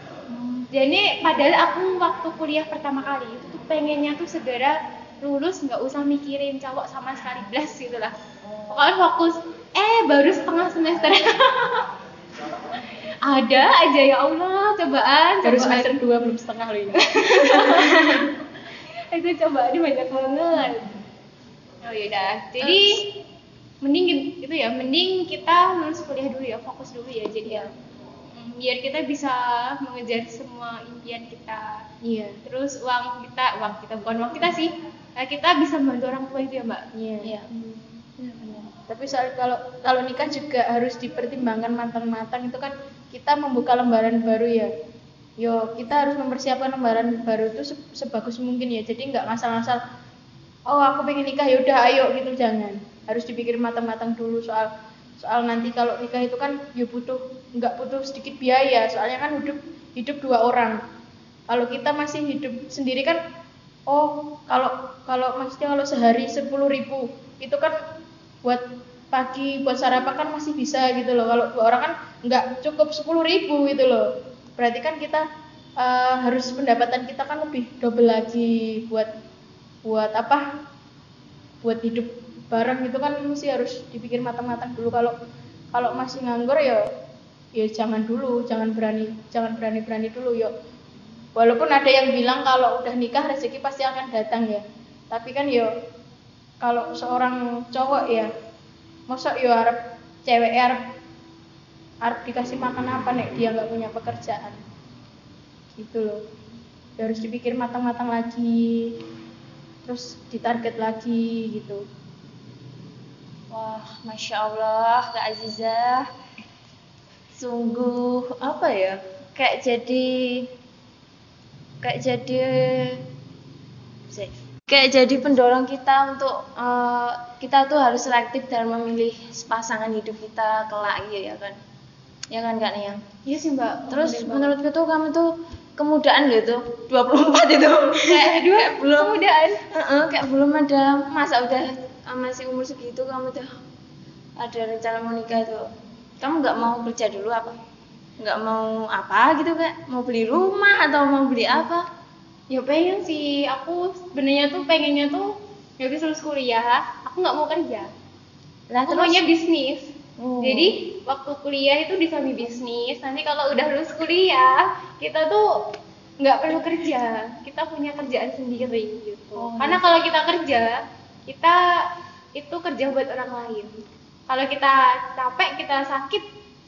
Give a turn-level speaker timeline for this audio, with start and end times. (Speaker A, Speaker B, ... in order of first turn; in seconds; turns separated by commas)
Speaker A: 0.3-0.7, Speaker B: 0.7-8.2, Speaker B: 8.7-11.9, Speaker B: 13.3-16.0, Speaker C: 15.4-18.1, Speaker B: 16.9-18.4, Speaker B: 19.1-20.9, Speaker B: 21.8-22.9, Speaker A: 22.6-23.0, Speaker B: 23.8-27.7, Speaker B: 28.3-31.8, Speaker C: 32.0-32.4, Speaker B: 32.4-36.9, Speaker C: 36.9-37.3, Speaker A: 37.2-38.7, Speaker C: 38.9-44.7, Speaker C: 45.4-49.8, Speaker C: 50.7-54.7, Speaker C: 55.2-60.8, Speaker C: 61.5-63.2, Speaker C: 63.9-67.8, Speaker C: 68.5-74.0, Speaker C: 74.6-75.2, Speaker C: 75.8-79.1, Speaker C: 79.9-80.4, Speaker C: 81.6-85.1, Speaker C: 85.7-86.8, Speaker C: 87.6-90.5, Speaker C: 91.4-95.7, Speaker C: 96.6-98.3, Speaker C: 99.1-99.8, Speaker C: 100.3-100.8, Speaker C: 102.0-104.6, Speaker C: 105.8-106.2, Speaker C: 107.0-108.9, Speaker C: 109.8-111.8, Speaker A: 113.5-116.1, Speaker A: 117.3-120.5, Speaker A: 121.8-123.0, Speaker A: 124.1-131.6, Speaker A: 132.3-133.0, Speaker B: 133.3-134.6, Speaker A: 133.9-143.5, Speaker B: 138.1-139.6, Speaker A: 144.4-145.7, Speaker A: 146.2-147.6, Speaker A: 148.2-151.9, Speaker B: 152.5-155.3, Speaker B: 155.8-157.9, Speaker A: 158.7-159.2, Speaker B: 158.9-165.4, Speaker A: 160.2-160.7, Speaker B: 166.2-170.7, Speaker A: 169.4-169.8, Speaker B: 171.3-171.6, Speaker B: 172.4-173.7, Speaker B: 174.3-176.2